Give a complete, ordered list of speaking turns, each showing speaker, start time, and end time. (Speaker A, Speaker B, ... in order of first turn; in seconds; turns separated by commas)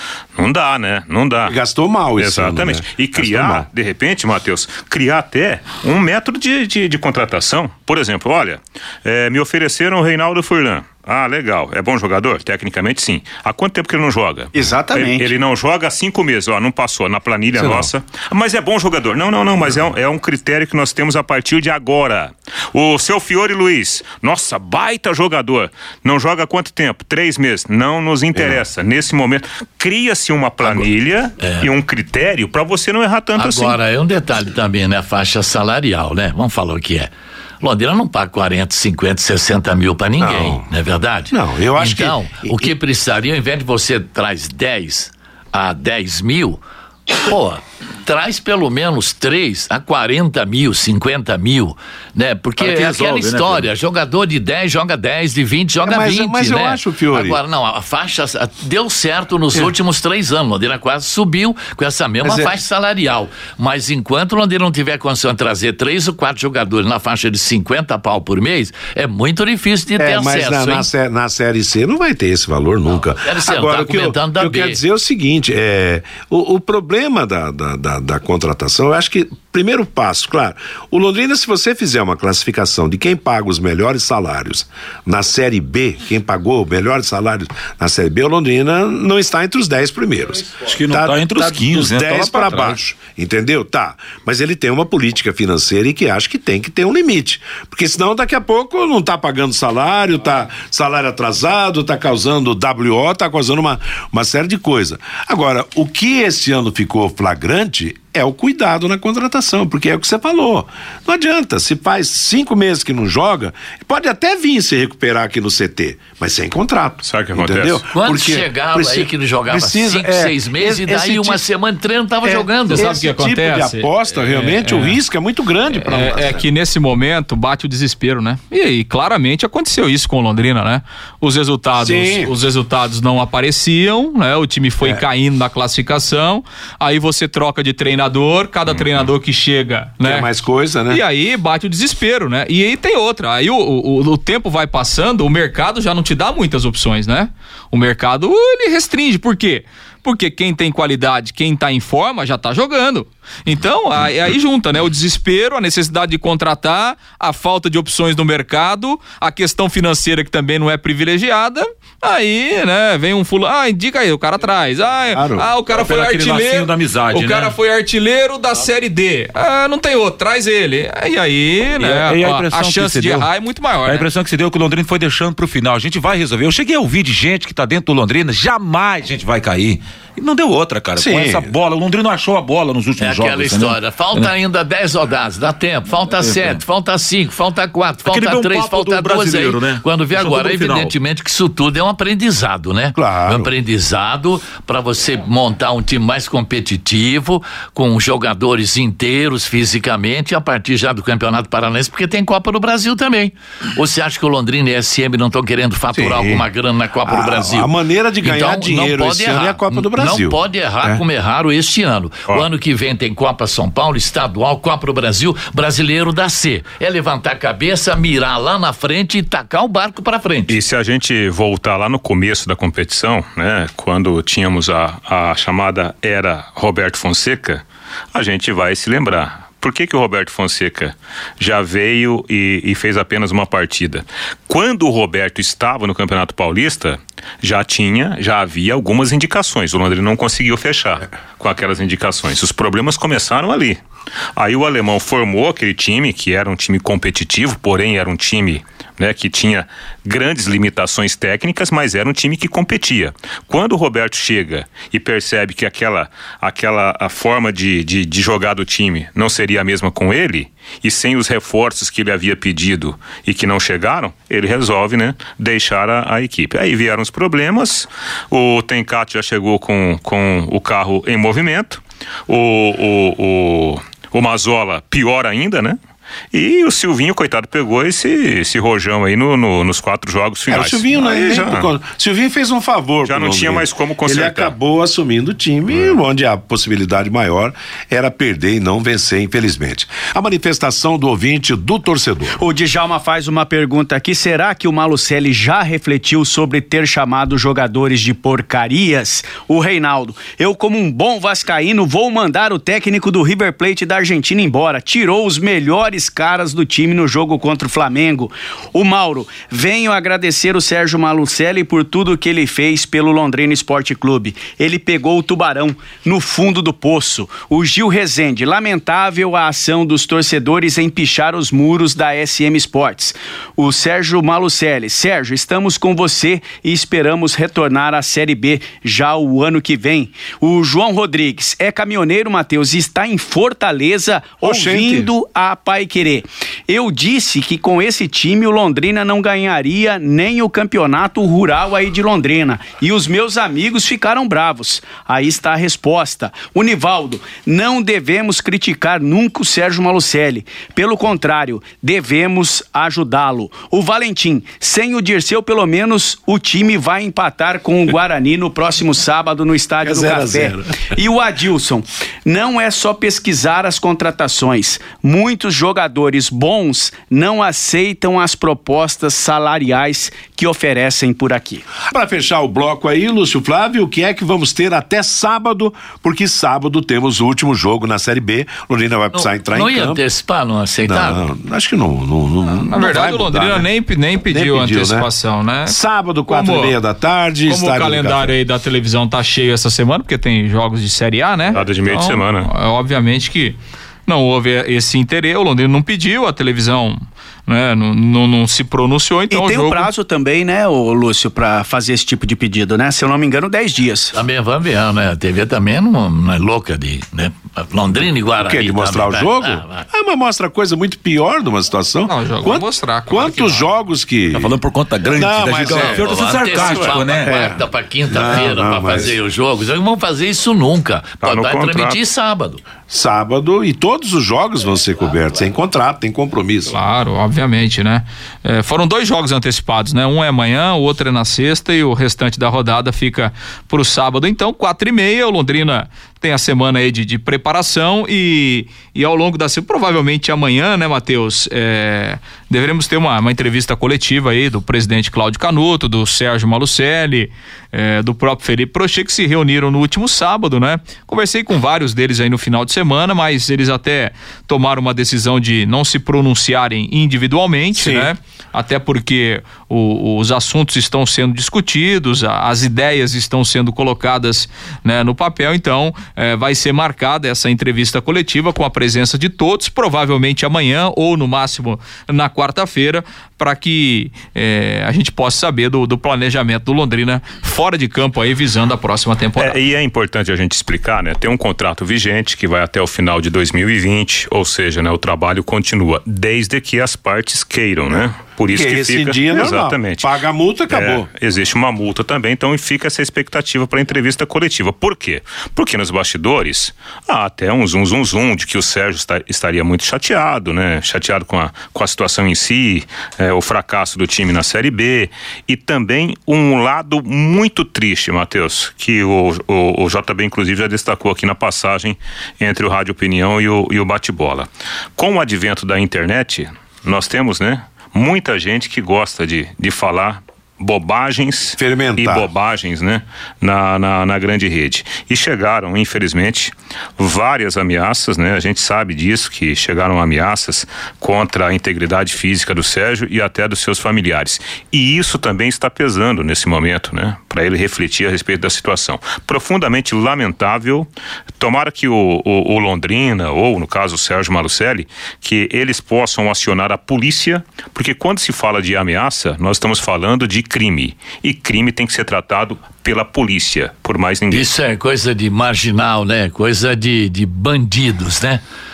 Speaker A: 0.3-1.6, Speaker B: 1.4-3.6, Speaker A: 2.2-33.8, Speaker B: 14.6-15.1, Speaker B: 17.6-17.9, Speaker B: 28.3-28.6, Speaker C: 31.4-31.7, Speaker C: 33.3-70.9, Speaker B: 40.2-40.6, Speaker B: 41.3-42.7, Speaker D: 52.6-53.7, Speaker B: 55.8-57.4, Speaker B: 62.2-62.6, Speaker B: 70.0-121.4, Speaker C: 73.2-74.8, Speaker D: 90.6-92.8, Speaker A: 117.0-117.8, Speaker C: 117.9-122.9, Speaker B: 122.2-126.4, Speaker E: 122.7-125.0, Speaker E: 125.7-140.3, Speaker B: 131.8-132.3, Speaker B: 140.0-141.0, Speaker E: 140.9-174.1, Speaker B: 165.1-165.5, Speaker D: 165.7-167.6, Speaker D: 171.8-173.3, Speaker D: 173.8-184.3, Speaker B: 180.9-181.5, Speaker C: 183.0-207.7, Speaker D: 186.2-186.6, Speaker D: 188.0-190.9, Speaker B: 192.9-193.5, Speaker B: 205.9-206.4, Speaker B: 207.0-211.0, Speaker C: 208.2-220.6, Speaker A: 220.5-243.8, Speaker A: 244.3-275.8, Speaker A: 276.3-281.7, Speaker B: 280.5-292.4, Speaker A: 283.1-284.5, Speaker F: 292.4-371.6, Speaker B: 334.4-335.1, Speaker B: 359.8-360.9, Speaker B: 371.8-380.0, Speaker C: 379.1-381.2, Speaker B: 380.8-383.7, Speaker E: 382.6-385.8, Speaker B: 384.3-385.1, Speaker B: 385.6-388.4, Speaker E: 386.3-386.7, Speaker E: 387.5-399.9, Speaker A: 391.5-392.5, Speaker F: 399.3-404.1, Speaker C: 404.1-409.8, Speaker B: 408.4-414.5, Speaker E: 412.1-413.7, Speaker D: 414.3-417.4, Speaker B: 415.1-416.1, Speaker C: 415.5-422.6, Speaker A: 416.4-417.0, Speaker B: 417.2-417.6, Speaker B: 418.1-419.1, Speaker D: 418.2-418.4, Speaker A: 421.2-422.0, Speaker B: 422.9-426.7, Speaker E: 426.7-479.6, Speaker B: 457.8-458.1, Speaker A: 479.4-490.1, Speaker B: 488.5-491.1, Speaker A: 490.7-554.5, Speaker B: 521.6-522.3, Speaker C: 554.3-558.4